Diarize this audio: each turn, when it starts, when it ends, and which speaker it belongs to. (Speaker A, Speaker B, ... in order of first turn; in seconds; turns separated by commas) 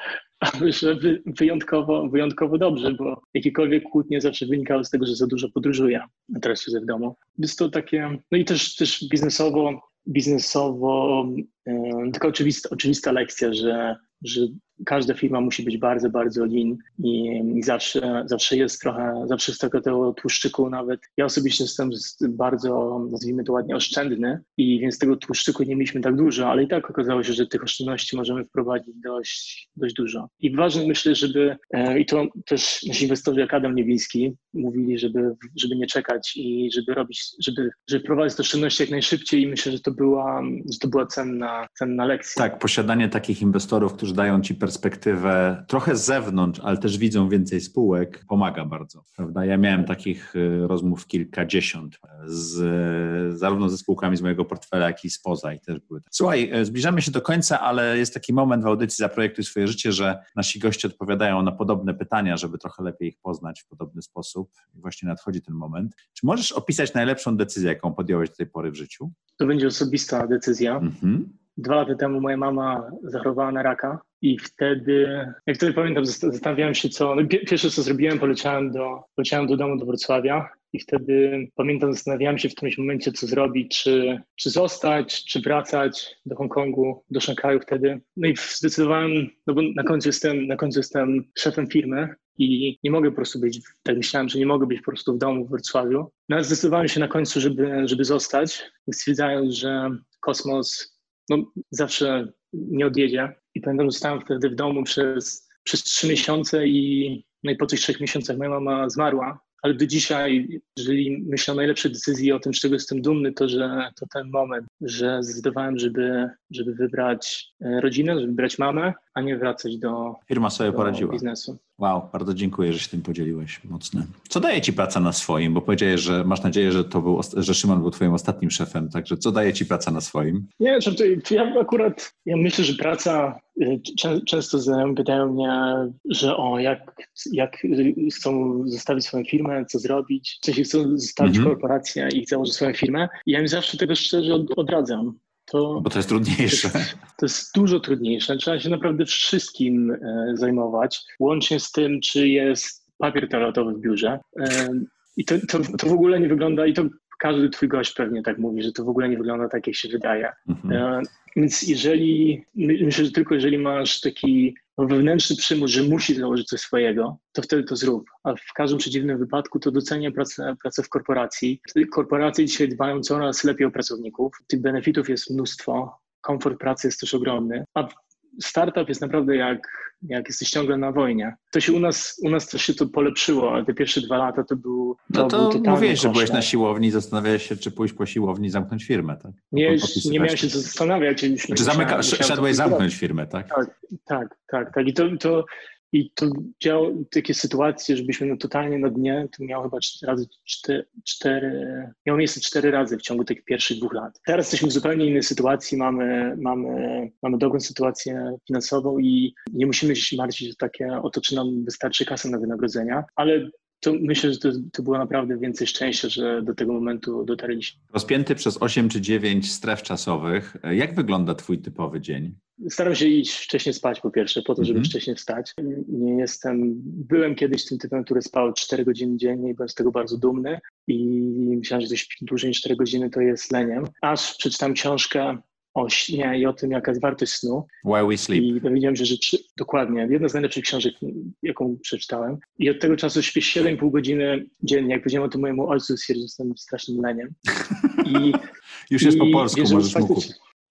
Speaker A: 0.4-42.5, Speaker B: 42.4-69.2, Speaker A: 69.4-70.9, Speaker B: 70.8-71.4, Speaker A: 71.6-121.6, Speaker B: 120.3-121.2, Speaker B: 121.8-130.5, Speaker A: 130.6-145.9, Speaker B: 141.2-141.6, Speaker B: 145.8-146.9, Speaker A: 146.5-186.5, Speaker B: 160.5-160.8, Speaker B: 185.1-190.6, Speaker A: 189.5-192.8, Speaker B: 191.5-193.5, Speaker A: 193.5-217.8, Speaker B: 217.9-222.4, Speaker A: 222.6-237.7, Speaker B: 224.6-224.9, Speaker B: 237.8-238.6, Speaker A: 238.3-247.4, Speaker B: 247.6-248.3, Speaker A: 248.0-248.4, Speaker B: 248.9-250.3, Speaker A: 249.0-250.4